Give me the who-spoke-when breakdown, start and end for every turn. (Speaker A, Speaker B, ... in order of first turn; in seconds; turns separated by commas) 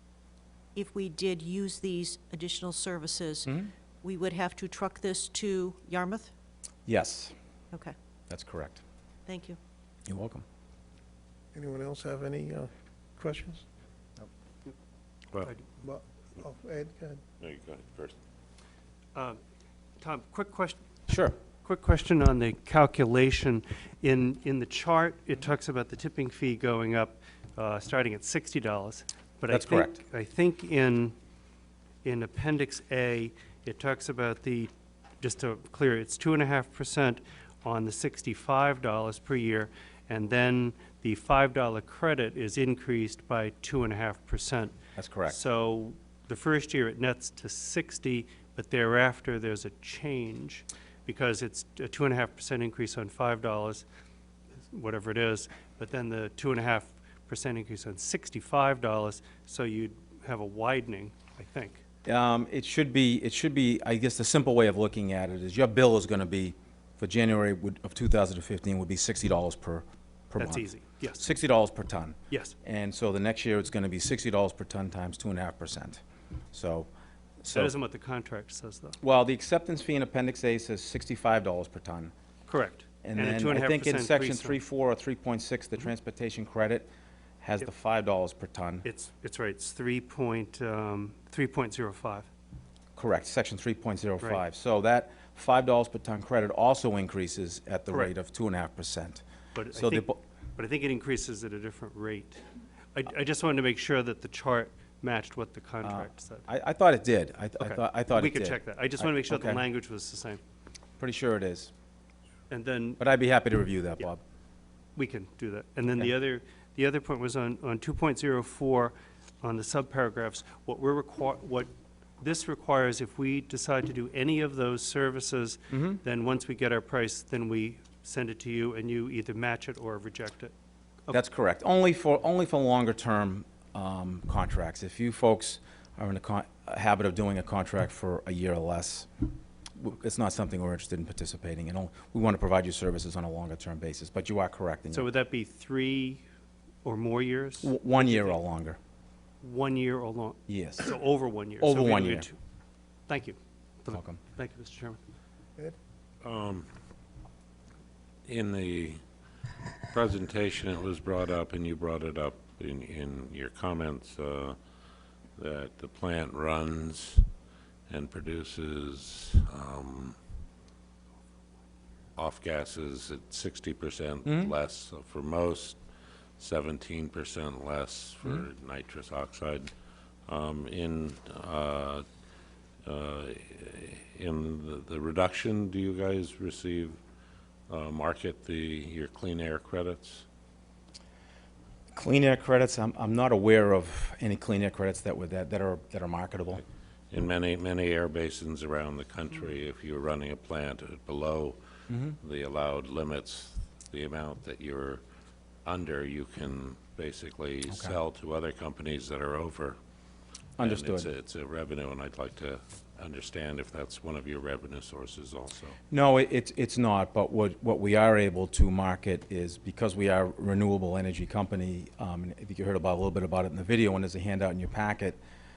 Speaker A: 0.7-6.3, Speaker B: 6.8-7.3, Speaker B: 8.3-8.8, Speaker A: 9.2-9.6, Speaker B: 10.1-10.4, Speaker C: 11.5-13.6, Speaker C: 15.8-17.2, Speaker D: 17.4-18.1, Speaker E: 19.1-19.4, Speaker E: 20.0-20.8, Speaker B: 21.1-21.4, Speaker E: 21.6-31.1, Speaker B: 29.5-30.0, Speaker E: 32.0-44.7, Speaker B: 44.9-45.4, Speaker E: 45.3-53.9, Speaker E: 54.7-61.8, Speaker B: 62.0-76.0, Speaker E: 70.4-71.3, Speaker B: 76.5-76.9, Speaker B: 77.4-77.7, Speaker E: 77.5-79.0, Speaker B: 79.0-82.1, Speaker E: 82.5-84.6, Speaker B: 83.0-86.9, Speaker B: 87.4-88.8, Speaker E: 88.9-92.3, Speaker B: 93.0-99.2, Speaker E: 99.5-106.5, Speaker B: 99.7-100.2, Speaker B: 105.8-109.6, Speaker E: 107.6-110.4, Speaker B: 111.0-111.7, Speaker E: 112.5-113.0, Speaker B: 113.0-114.2, Speaker E: 115.0-130.5, Speaker B: 125.7-126.0, Speaker B: 131.1-139.1, Speaker B: 139.8-145.1, Speaker E: 144.9-146.2, Speaker E: 146.8-148.4, Speaker B: 147.6-148.8, Speaker E: 149.4-152.4, Speaker B: 150.5-150.9, Speaker B: 151.6-152.3, Speaker E: 153.1-155.0, Speaker B: 153.9-154.2, Speaker D: 156.2-156.7, Speaker D: 158.2-159.0, Speaker D: 159.9-164.6, Speaker D: 165.4-167.3, Speaker D: 167.9-170.2, Speaker D: 172.2-175.8, Speaker B: 174.2-174.5, Speaker D: 176.4-179.7, Speaker D: 180.3-182.0, Speaker D: 182.8-187.0, Speaker D: 187.7-190.2, Speaker B: 191.9-196.6, Speaker D: 197.1-201.6, Speaker B: 201.9-202.2, Speaker D: 202.2-205.0, Speaker D: 205.6-209.8, Speaker B: 207.7-207.9, Speaker B: 210.6-211.1, Speaker D: 210.6-215.8, Speaker B: 215.9-225.2